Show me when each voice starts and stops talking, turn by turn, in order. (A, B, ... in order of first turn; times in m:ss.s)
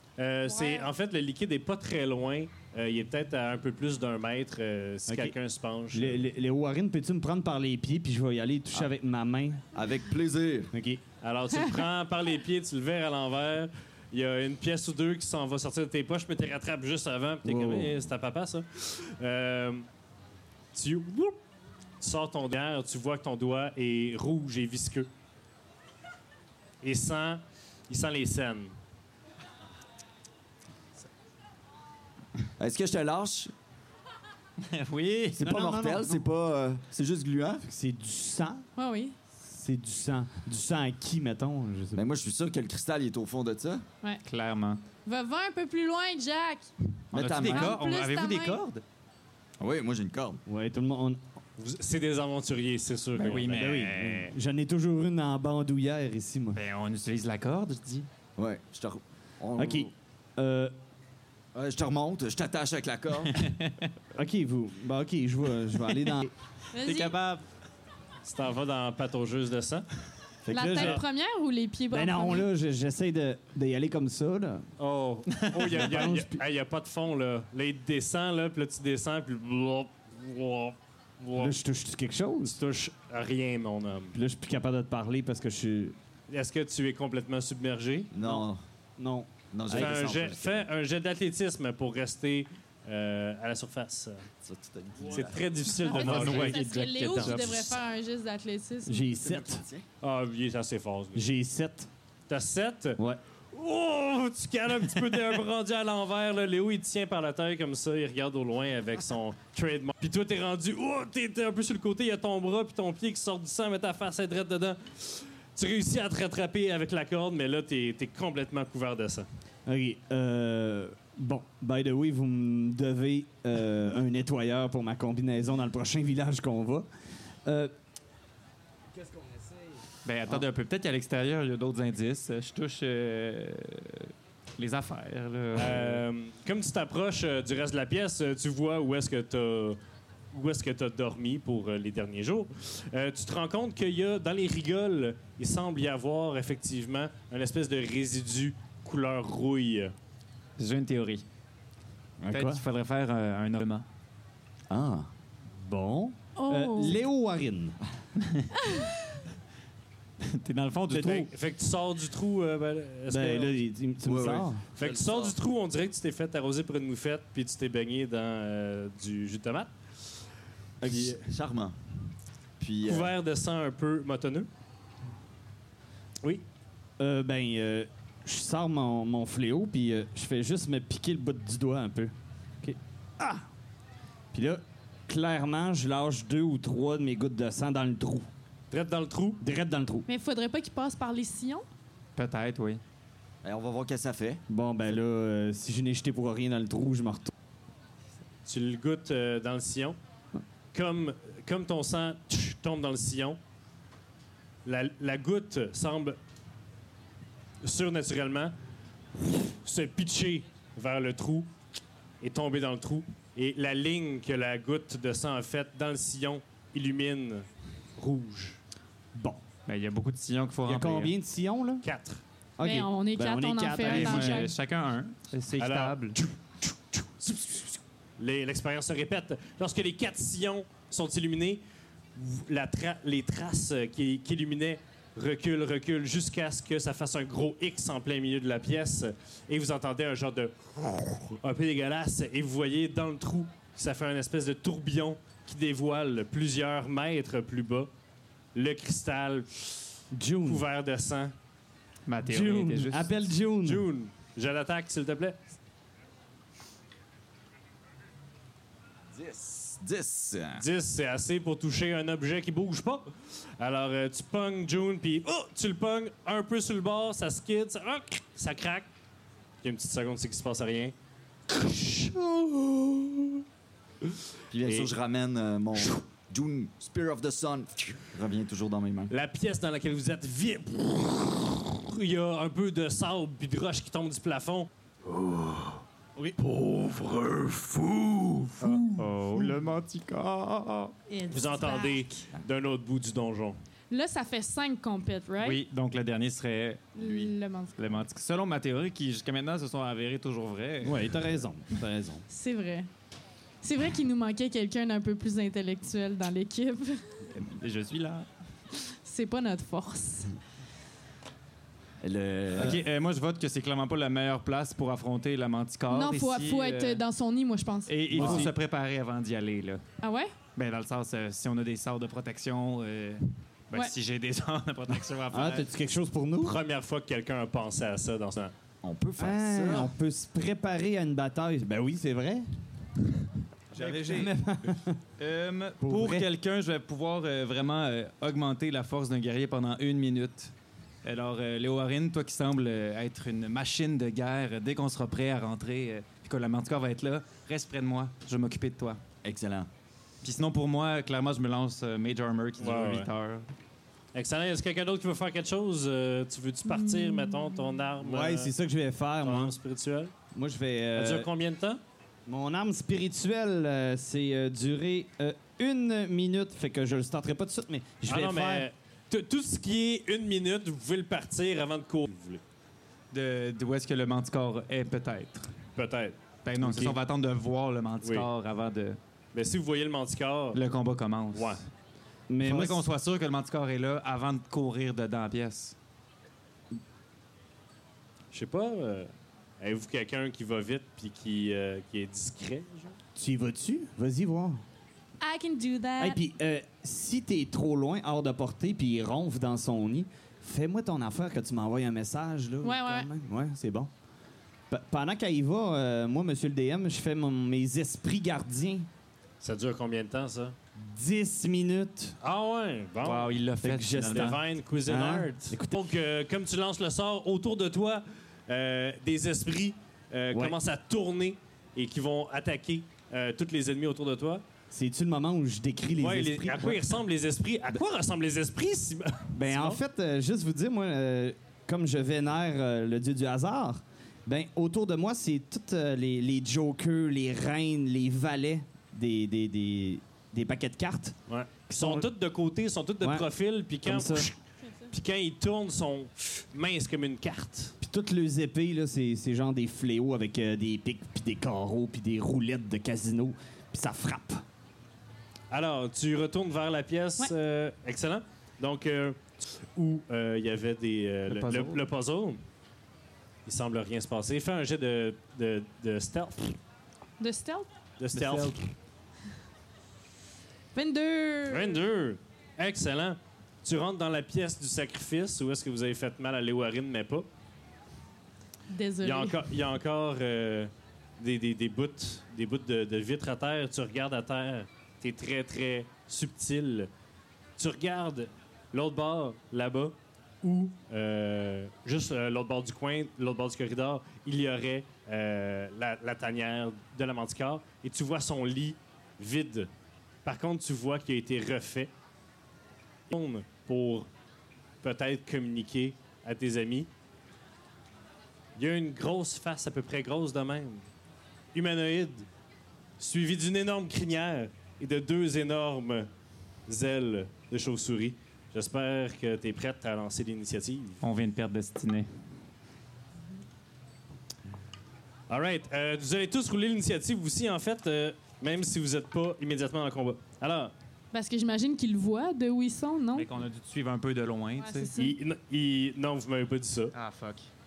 0:00.2-0:06.2 A
0:00.4-0:00.9 B
0:05.1-0:05.3 C
0:05.9-0:09.6 C
0:09.7-0:10.7 D
0:10.7-0:11.0 C
0:11.2-0:19.8 A
0:17.4-0:18.0 C
0:20.7-0:21.4 A
0:22.0-0:25.1 A
0:26.8-0:28.7 A
0:32.6-0:33.5 D
0:34.6-0:35.4 E
0:35.3-0:37.6 D
0:35.4-0:36.2 C
0:37.6-0:38.6 C
0:38.8-0:39.1 B
0:39.4-0:42.0 C
0:41.9-0:43.8 D
0:44.2-0:44.8 E
0:45.0-0:46.7 B
0:47.1-0:47.8 D
0:47.1-0:48.8 E
0:47.4-0:48.6 B
0:49.6-0:50.4 D
0:50.5-0:51.2 C
0:51.6-0:53.9 A
0:53.1-0:54.3 E
0:53.5-0:56.6 C
0:56.5-0:58.1 E
0:58.4-0:59.9 D
0:59.6-1:00.7 C
1:01.5-1:03.4 D
1:03.3-1:03.9 E
1:04.1-1:06.3 C
1:06.7-1:07.1 B
1:06.8-1:07.4 E
1:08.2-1:09.9 A
1:10.4-1:11.0 C
1:10.5-1:12.5 B
1:10.7-1:11.0 A
1:11.9-1:14.7 C
1:14.8-1:21.6 A
1:15.6-1:16.4 C
1:21.4-1:22.6 C
1:22.4-1:24.2 A
1:24.1-1:26.0 C
1:26.3-1:28.1 A
1:28.1-1:28.6 D
1:28.2-1:28.5 C
1:29.0-1:30.1 C
1:29.5-1:30.7 D
1:29.7-1:34.2 A
1:34.4-1:35.5 D
1:35.1-1:37.5 A
1:35.8-1:39.0 B
1:35.8-1:37.8 E
1:38.8-1:39.6 C
1:39.2-1:39.8 D
1:40.0-1:41.2 A
1:41.1-1:41.9 C
1:42.3-1:43.0 A
1:43.5-1:59.3 A
1:59.6-2:06.9 C
2:07.4-2:07.7 C
2:10.0-2:16.0 E
2:15.5-2:19.8 A
2:20.3-2:29.9 A
2:30.6-2:31.2 E
2:32.2-2:32.6 C
2:32.3-2:33.8 E
2:34.7-2:35.1 D
2:35.5-2:37.8 C
2:36.4-2:37.0 B
2:38.2-2:38.5 E
2:38.6-2:39.0 B
2:40.2-2:41.3 E
2:40.9-2:41.3 C
2:41.3-2:43.6 A
2:43.1-2:44.6 C
2:44.0-2:45.3 D
2:44.8-2:49.7 A
2:50.8-2:51.2 C
2:50.8-2:51.8 D
2:52.6-2:53.1 D
2:52.8-2:54.5 A
2:57.0-3:03.4 C
3:04.3-3:08.3 C
3:08.7-3:09.4 A
3:09.4-3:10.1 C
3:10.1-3:11.6 B
3:12.2-3:12.8 E
3:13.4-3:14.4 D
3:14.5-3:17.3 C
3:18.4-3:20.0 A
3:20.7-3:23.4 A
3:24.6-3:26.2 A
3:27.6-3:28.5 A
3:29.2-3:31.5 A
3:32.2-3:37.4 A
3:38.0-3:38.6 A
3:39.1-3:39.4 C
3:39.6-3:41.1 E
3:40.6-3:41.8 C
3:41.8-3:42.2 A
3:42.6-3:44.5 C
3:42.6-3:44.5 B
3:43.8-3:46.2 E
3:45.6-3:46.3 A
3:46.9-3:47.6 A
3:48.2-3:51.6 A
3:52.2-4:07.9 A
4:08.5-4:09.9 A
4:10.1-4:10.6 C
4:10.4-4:11.3 A
4:12.0-4:13.1 E
4:12.2-4:13.9 C
4:13.6-4:15.4 A
4:19.1-4:20.6 D
4:20.6-4:28.9 A
4:29.6-4:30.9 A
4:31.5-4:33.4 A
4:34.5-4:39.1 D
4:34.6-4:34.9 A
4:39.1-4:44.7 A
4:46.5-4:48.9 A
4:48.9-4:50.9 E
4:51.1-4:52.2 B
4:51.3-4:53.6 A
4:53.9-4:55.6 B
4:55.4-4:56.9 E
4:57.0-4:57.8 B
4:57.0-4:57.3 D
4:57.8-5:01.2 E
5:00.8-5:02.2 C
5:02.3-5:02.9 B
5:03.6-5:07.0 B
5:07.3-5:08.3 E
5:08.9-5:10.3 B
5:12.0-5:12.8 D
5:12.6-5:17.0 E
5:15.9-5:18.1 B
5:17.8-5:19.8 E
5:18.1-5:18.5 C
5:20.0-5:20.3 B
5:20.5-5:25.7 E
5:25.3-5:26.6 C
5:26.4-5:28.5 A
5:28.8-5:29.9 D
5:29.2-5:32.5 C
5:33.7-5:34.3 E
5:33.7-5:35.0 C
5:35.2-5:40.5 E
5:35.8-5:36.3 C
5:41.0-5:49.0 E
5:49.2-5:49.7 D
5:50.2-5:53.5 E
5:52.6-5:53.1 A
5:54.1-5:58.5 A
5:56.7-5:57.7 B
5:58.0-5:59.6 C
5:59.2-6:00.1 A
6:00.3-6:01.3 C
6:01.0-6:01.8 A
6:02.3-6:08.7 C
6:08.0-6:12.4 A
6:13.1-6:15.5 E
6:15.8-6:16.2 A
6:16.4-6:19.0 E
6:16.6-6:17.0 C
6:18.0-6:18.3 A
6:19.3-6:20.6 A
6:20.5-6:21.6 E
6:21.3-6:21.6 A
6:22.3-6:22.9 C
6:22.4-6:25.7 E
6:28.3-6:33.0 A
6:33.2-6:34.6 C
6:35.2-6:36.2 B
6:36.0-6:43.9 C
6:42.6-6:43.1 B
6:44.7-6:48.9 C
6:49.4-6:50.5 A
6:50.7-6:52.2 C
6:52.2-6:53.4 A
6:53.0-6:54.4 E
6:53.6-6:55.8 C
6:54.1-7:04.4 A
7:04.7-7:07.0 C
7:06.0-7:09.8 A
7:09.3-7:21.2 C
7:21.3-7:24.3 A
7:21.7-7:22.1 C
7:23.0-7:23.3 C
7:23.8-7:24.3 C
7:24.6-7:24.9 B
7:24.9-7:27.8 A
7:27.8-7:34.4 C
7:35.5-7:42.4 A
7:41.3-7:41.8 E
7:43.4-7:46.6 A
7:47.2-7:47.7 B
7:48.0-7:48.6 A
7:48.1-7:48.5 E
7:50.7-7:51.8 B
7:51.5-7:57.3 A
7:58.7-7:59.4 B
7:59.0-8:06.9 A
8:07.6-8:19.7 A
8:20.2-8:21.9 A
8:23.1-8:24.1 A
8:24.8-8:26.9 A
8:28.6-8:30.8 A
8:31.5-8:32.3 A
8:33.0-8:36.1 A
8:36.7-8:41.0 A
8:41.0-8:42.1 E
8:45.3-8:50.7 A
8:51.1-8:53.3 B
8:53.1-8:54.9 E
8:54.5-8:55.2 B
8:55.0-8:56.9 A
8:56.9-8:57.5 E